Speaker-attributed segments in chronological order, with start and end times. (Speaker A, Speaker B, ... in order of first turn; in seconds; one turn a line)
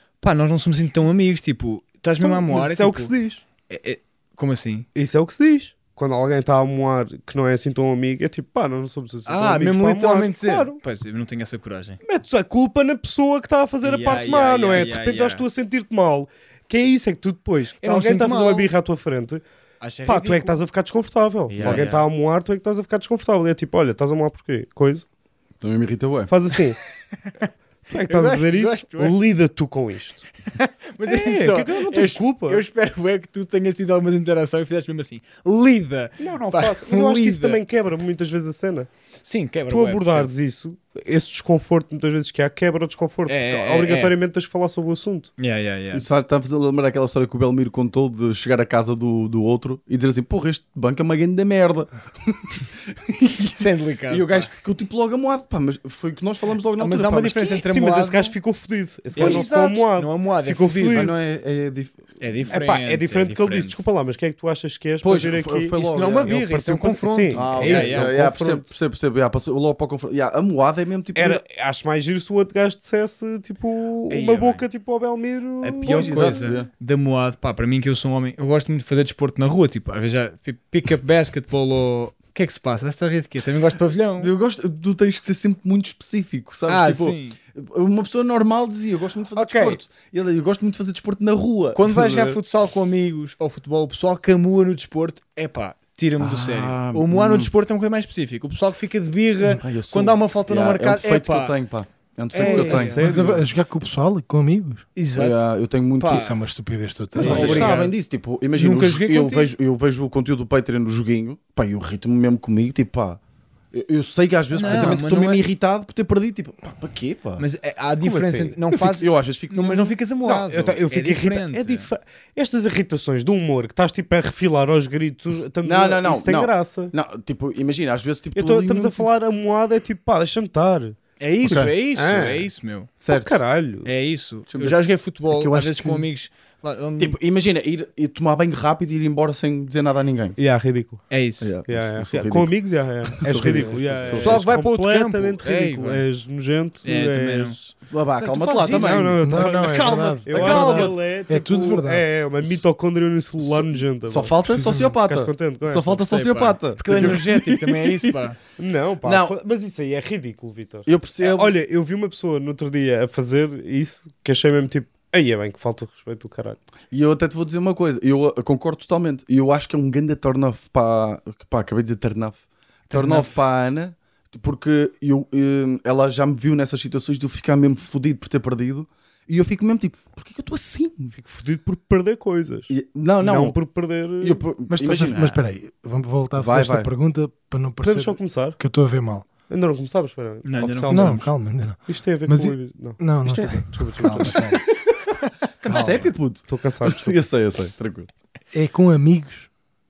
Speaker A: 0.2-3.1
Speaker B: 2.2-3.4
Speaker A: 3.7-4.9
Speaker B: 4.9-10.8
Speaker A: 9.2-12.0
Speaker B: 12.0-19.4
Speaker A: 13.8-15.4
Speaker A: 17.8-18.7
Speaker A: 19.8-20.6
Speaker B: 20.1-25.0
Speaker A: 21.5-22.1
Speaker C: 21.6-21.9
Speaker C: 25.6-26.3
Speaker B: 26.3-26.8
Speaker A: 27.3-29.2
Speaker B: 27.9-30.3
Speaker A: 30.4-37.6
Speaker B: 31.0-32.6
Speaker B: 36.2-38.9
Speaker A: 39.2-40.3
Speaker B: 39.7-45.3
Speaker A: 43.3-44.1
Speaker A: 45.4-46.1
Speaker C: 45.9-58.3
Speaker A: 53.6-54.5
Speaker A: 56.8-58.2
Speaker B: 57.6-61.1
Speaker C: 59.1-59.5
Speaker A: 59.1-61.1
Speaker C: 60.9-62.1
Speaker A: 62.2-63.9
Speaker B: 62.5-68.7
Speaker C: 65.0-66.3
Speaker A: 65.7-68.1
Speaker C: 67.3-71.4
Speaker B: 71.1-76.4
Speaker A: 74.1-74.6
Speaker A: 75.6-84.3
Speaker C: 75.8-76.7
Speaker C: 84.2-92.4
Speaker A: 86.7-87.4
Speaker A: 89.3-89.8
Speaker A: 91.7-101.6
Speaker C: 96.2-97.5
Speaker C: 99.5-103.1
Speaker A: 102.3-103.4
Speaker B: 102.3-103.5
Speaker D: 102.9-104.8
Speaker A: 105.0-105.4
Speaker C: 105.2-106.3
Speaker A: 106.0-106.4
Speaker D: 106.1-107.8
Speaker A: 107.1-108.0
Speaker C: 107.1-113.2
Speaker B: 107.2-107.8
Speaker A: 108.5-109.5
Speaker C: 113.7-117.4
Speaker A: 114.5-115.4
Speaker D: 114.7-114.9
Speaker A: 117.4-121.9
Speaker B: 118.0-118.6
Speaker C: 118.7-120.0
Speaker B: 120.2-126.9
Speaker C: 125.6-129.1
Speaker B: 128.3-131.0
Speaker A: 131.2-132.9
Speaker C: 131.4-131.7
Speaker B: 131.9-132.5
Speaker C: 133.0-133.4
Speaker B: 133.1-133.9
Speaker A: 133.8-137.2
Speaker C: 134.5-136.0
Speaker C: 137.0-140.4
Speaker B: 140.4-141.0
Speaker A: 141.1-141.5
Speaker C: 141.4-142.5
Speaker B: 141.7-147.7
Speaker C: 143.2-144.6
Speaker D: 143.4-144.0
Speaker A: 144.1-146.0
Speaker A: 146.8-150.8
Speaker C: 147.9-150.9
Speaker B: 148.6-154.4
Speaker D: 149.2-152.1
Speaker C: 153.4-158.2
Speaker D: 154.4-155.0
Speaker B: 155.0-156.0
Speaker A: 155.9-158.4
Speaker B: 158.6-166.6
Speaker C: 159.0-159.3
Speaker C: 160.8-161.6
Speaker C: 166.9-181.2
Speaker A: 172.9-173.4
Speaker B: 181.1-184.4
Speaker C: 182.7-183.6
Speaker C: 184.2-185.3
Speaker D: 184.7-189.2
Speaker A: 185.1-185.4
Speaker C: 186.4-186.9
Speaker B: 187.8-188.6
Speaker B: 189.5-191.3
Speaker A: 190.4-191.3
Speaker D: 190.9-194.6
Speaker B: 191.9-194.4
Speaker C: 193.3-195.1
Speaker A: 195.6-196.1
Speaker C: 195.6-198.1
Speaker D: 195.6-196.1
Speaker B: 196.4-197.2
Speaker D: 198.5-199.5